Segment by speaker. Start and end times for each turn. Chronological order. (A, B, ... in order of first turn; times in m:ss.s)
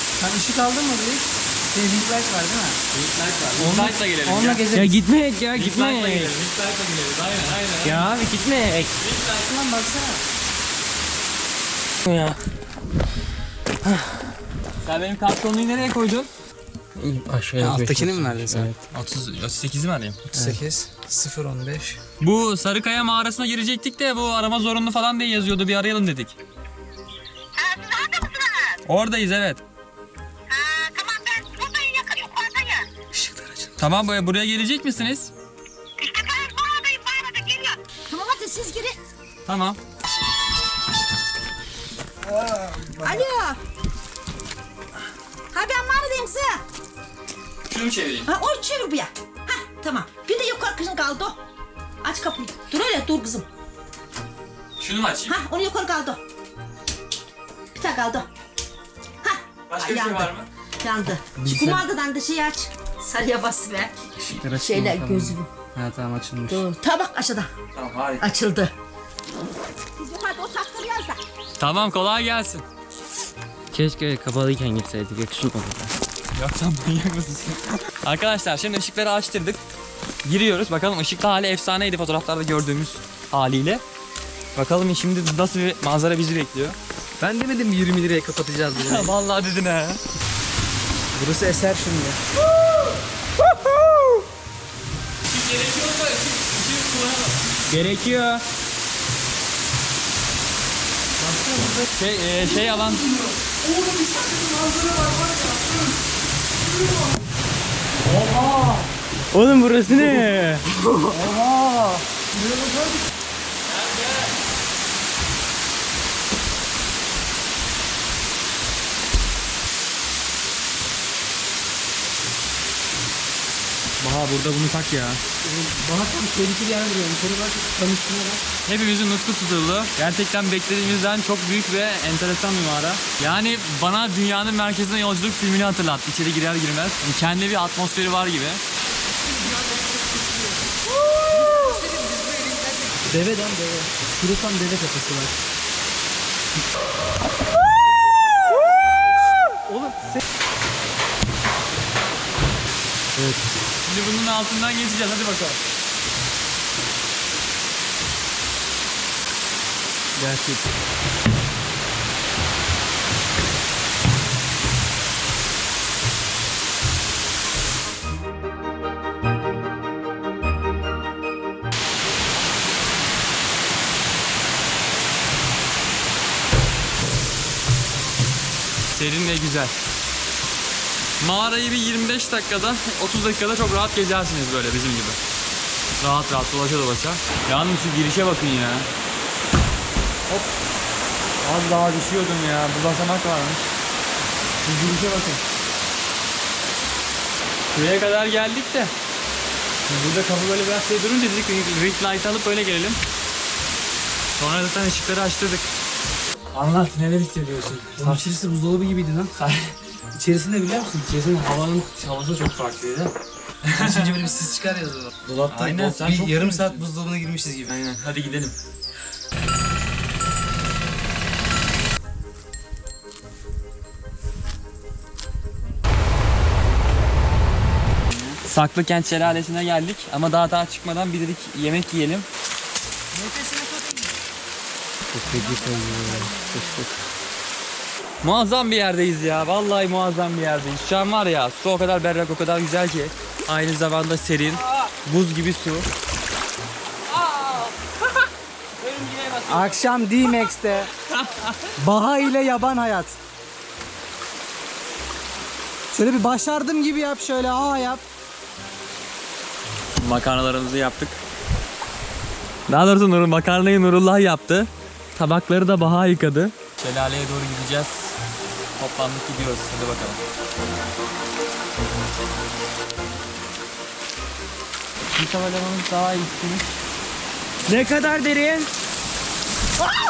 0:00.2-0:02.8 A
0:02.9-0:04.8 B
0:03.6-0:05.0 A
0:04.7-0:06.4 C
0:05.5-0:08.1 B
0:07.8-0:08.9 C
0:09.0-0:09.5 B
0:09.4-0:10.2 A
0:12.1-0:12.4 C
0:14.8-0:16.3 B
0:17.0-0:18.7 C
0:17.6-0:18.7 A
0:18.9-0:20.4 B
0:20.3-0:22.0 A
0:22.2-0:26.4 B
0:27.6-0:28.6 D
0:28.8-0:29.6 B
0:30.8-0:32.8 D
0:33.1-0:33.8 A
0:33.8-0:35.3 B
0:36.0-0:37.8 D
0:38.1-0:39.0 E
0:39.5-0:39.8 B
0:42.2-0:43.2 A
0:43.0-0:43.6 E
0:45.5-0:46.6 E
0:47.7-0:48.3 B
0:48.3-0:51.4 E
0:52.0-0:53.5 E
0:54.8-0:55.4 B
0:55.3-0:56.2 E
0:57.8-0:58.3 E
0:59.2-1:05.5 E
0:59.7-1:00.5 B
1:01.4-1:01.8 A
1:04.2-1:06.7 A
1:06.5-1:07.5 E
1:07.8-1:08.3 B
1:08.2-1:08.7 E
1:10.0-1:11.2 E
1:11.6-1:12.6 B
1:13.7-1:15.9 C
1:16.3-1:19.6 B
1:20.2-1:23.8 B
1:24.6-1:26.8 B
1:27.2-1:29.2 A
1:28.8-1:30.0 B
1:31.2-1:32.2 A
1:35.3-1:37.6 B
1:37.7-1:38.4 C
1:41.2-1:45.9 A
1:42.0-1:43.1 B
1:46.8-1:47.1 A
1:48.0-1:48.9 B
1:49.3-1:50.6 C
1:51.1-1:53.0 A
1:53.6-1:54.3 B
2:04.0-2:05.2 B
2:05.4-2:08.4 A
2:08.6-2:18.6 B
2:19.3-2:20.3 A
2:21.2-2:25.4 A
2:29.6-2:30.2 A
2:33.8-2:35.6 B
2:40.2-2:40.5 A
2:58.9-2:59.8 B
3:01.2-3:05.2 B
3:06.0-3:08.9 B
3:11.4-3:13.7 B
3:14.6-3:15.4 B
3:17.7-3:18.9 B
3:19.9-3:23.0 B
3:24.4-3:25.7 B
3:26.5-3:28.3 B
3:28.0-3:29.4 A
3:29.4-3:29.8 B
3:30.2-3:31.2 A
3:31.1-3:34.1 B
3:33.8-3:37.7 A
3:35.2-3:36.9 B
3:37.7-3:38.6 B
3:48.4-3:52.3 B
3:53.1-3:54.1 A
3:55.1-3:56.9 C
3:55.3-3:56.5 A
3:58.2-4:05.8 B
4:08.8-4:09.8 B
4:09.5-4:10.9 A
4:11.0-4:11.7 B
4:11.8-4:13.2 A
4:15.9-4:18.0 A
4:20.0-4:21.2 B
4:22.7-4:28.2 B
4:28.8-4:30.2 B
4:35.1-4:36.8 B
4:37.7-4:38.7 C